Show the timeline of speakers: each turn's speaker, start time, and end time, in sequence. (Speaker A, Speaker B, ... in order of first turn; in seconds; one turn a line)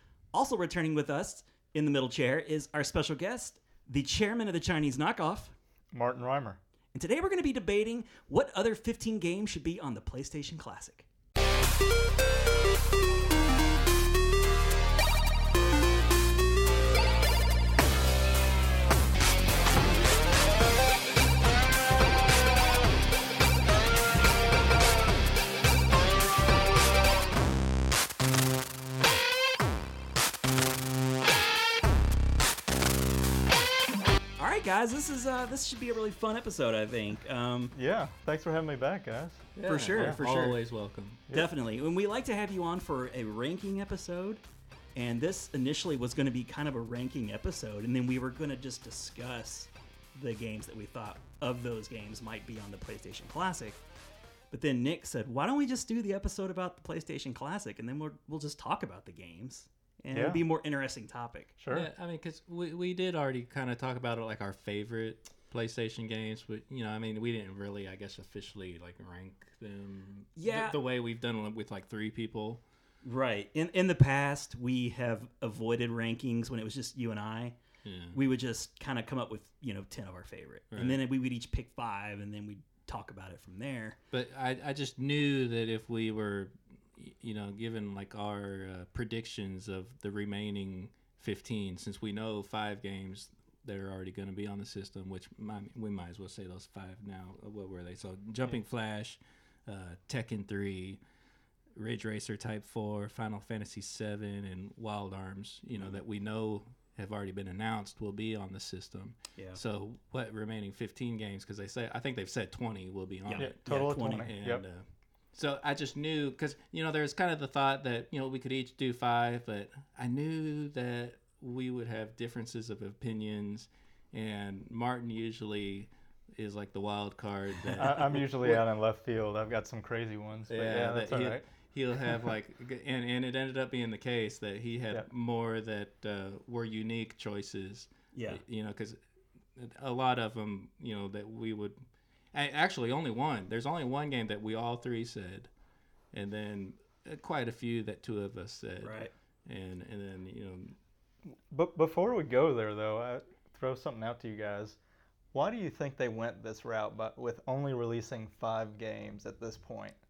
Speaker A: 0.3-5.5
Speaker B: 5.9-6.6
Speaker A: 6.9-11.1
Speaker A: 34.4-37.7
Speaker B: 37.7-40.2
Speaker C: 39.5-41.2
Speaker A: 39.6-40.6
Speaker A: 41.3-44.4
Speaker A: 44.9-53.8
Speaker A: 54.5-61.5
Speaker B: 60.1-60.4
Speaker B: 61.6-61.9
Speaker C: 61.7-72.6
Speaker A: 70.3-70.8
Speaker A: 73.0-77.6
Speaker C: 77.8-78.2
Speaker A: 78.1-84.0
Speaker C: 80.7-81.0
Speaker C: 84.1-101.0
Speaker C: 101.7-114.8
Speaker A: 113.2-114.3
Speaker B: 113.3-114.6
Speaker C: 115.3-128.7
Speaker B: 127.8-131.4
Speaker C: 130.5-139.0
Speaker A: 138.1-138.4
Speaker C: 139.6-141.8
Speaker C: 142.3-145.5
Speaker C: 146.1-150.7
Speaker A: 148.8-149.1
Speaker B: 151.5-154.8
Speaker B: 155.3-160.0